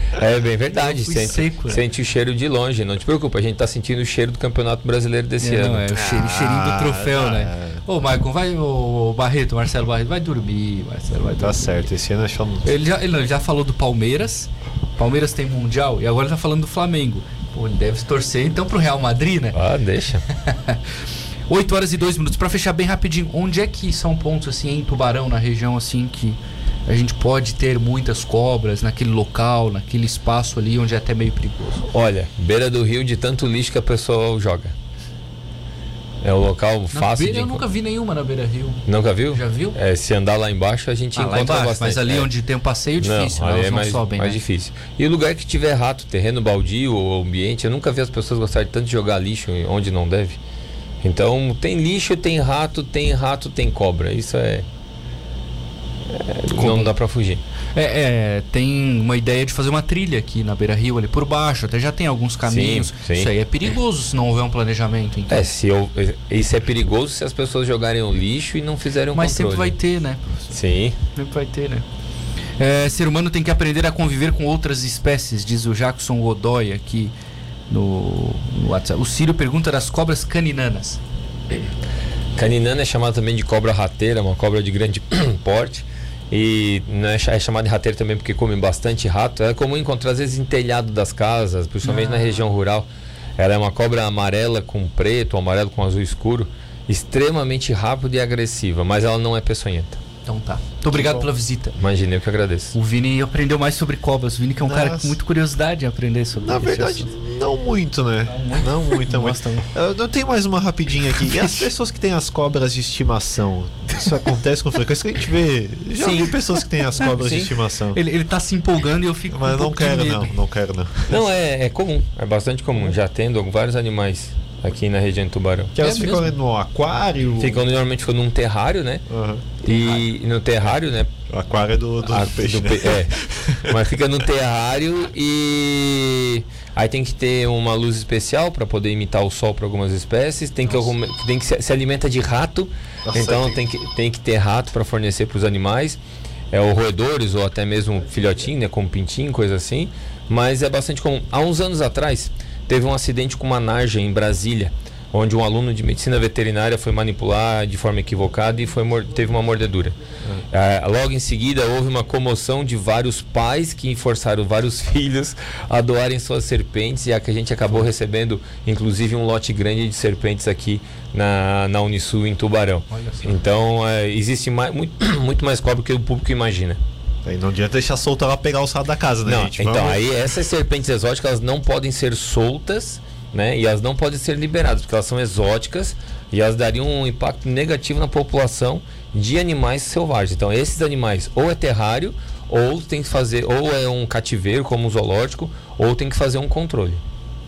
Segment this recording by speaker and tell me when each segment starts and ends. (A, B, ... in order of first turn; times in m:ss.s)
0:00.1-0:05.8 A
0:00.7-0:01.8 B
0:05.4-0:11.9 B
0:05.9-0:07.8 C
0:11.4-0:12.6 C
0:12.6-0:19.6 B
0:19.5-0:20.2 A
0:20.3-0:20.8 B
0:21.5-0:31.9 B
0:31.9-0:34.7 A
0:36.2-0:37.6 A
0:36.9-0:39.8 B
0:38.8-0:42.3 A
0:41.1-0:44.4 B
0:43.0-0:50.4 A
0:51.0-0:54.6 A
0:56.1-0:57.4 A
0:56.5-0:56.9 B
0:57.7-1:05.5 B
1:02.4-1:03.3 A
1:05.3-1:09.8 A
1:09.1-1:10.6 B
1:10.5-1:11.0 A
1:11.1-1:11.8 B
1:12.6-1:17.1 B
1:17.7-1:21.0 B
1:22.4-1:40.0 A
1:31.8-1:32.4 B
1:40.2-1:41.8 B
1:41.8-1:42.7 A
1:42.7-1:47.1 B
1:44.6-1:45.2 C
1:46.4-1:58.0 C
1:48.2-1:49.7 B
1:51.4-1:51.6 B
1:55.9-1:56.4 A
1:57.0-1:57.5 A
1:57.9-2:00.3 B
1:59.3-2:01.2 C
2:01.1-2:05.7 A
2:05.7-2:07.6 C
2:05.8-2:06.3 B
2:07.3-2:09.0 A
2:09.1-2:09.4 C
2:09.6-2:11.1 A
2:09.6-2:10.0 B
2:11.3-2:13.7 C
2:12.0-2:26.0 A
2:23.1-2:23.6 C
2:26.5-2:40.0 A
2:40.5-2:56.8 A
2:52.9-2:53.4 B
2:57.2-3:00.0 C
2:59.2-3:17.0 A